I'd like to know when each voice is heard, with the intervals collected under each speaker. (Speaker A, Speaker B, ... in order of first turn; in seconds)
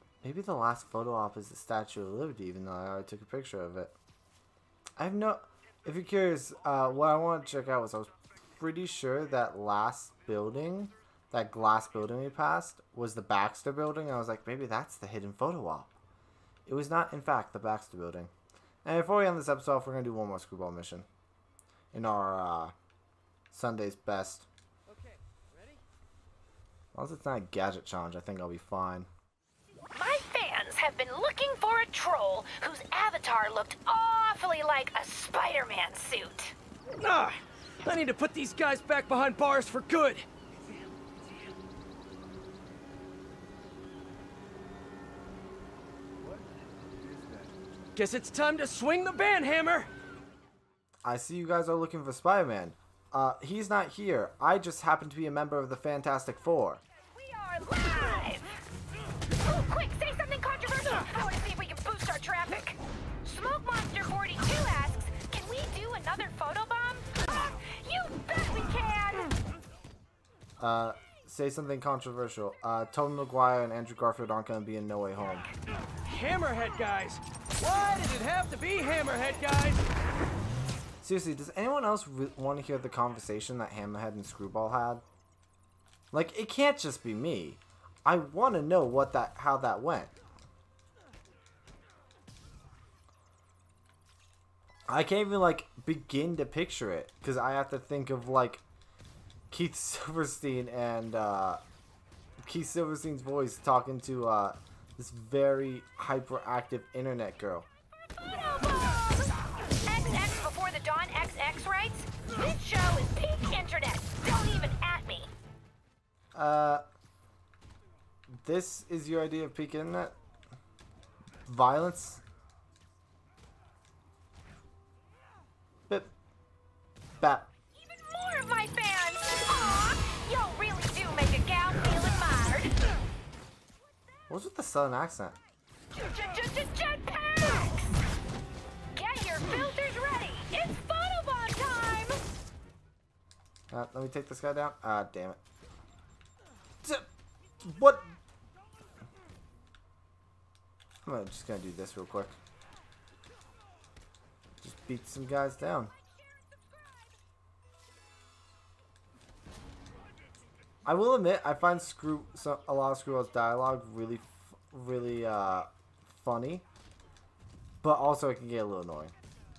Speaker A: 0.2-3.9, 5.0-15.9, 16.6-18.3, 18.8-21.1, 21.9-22.7, 23.5-24.5, 26.9-29.1, 51.0-56.8, 70.6-75.5, 81.0-85.0, 86.1-90.1, 94.9-98.6, 99.5-101.6, 102.4-107.7, 116.3-116.8, 118.3-120.2, 121.5-122.2, 127.2-127.5, 134.3-135.4, 143.7-145.4, 147.6-148.1, 151.0-152.4, 154.6-155.9, 160.8-166.6, 167.8-169.1
Speaker B: 24.9-25.8, 37.0-40.2, 47.9-49.9, 76.0-79.8
Speaker C: 29.9-36.5, 57.1-58.5, 59.4-69.4, 108.2-115.3, 127.7-132.8, 135.9-138.0, 138.9-142.2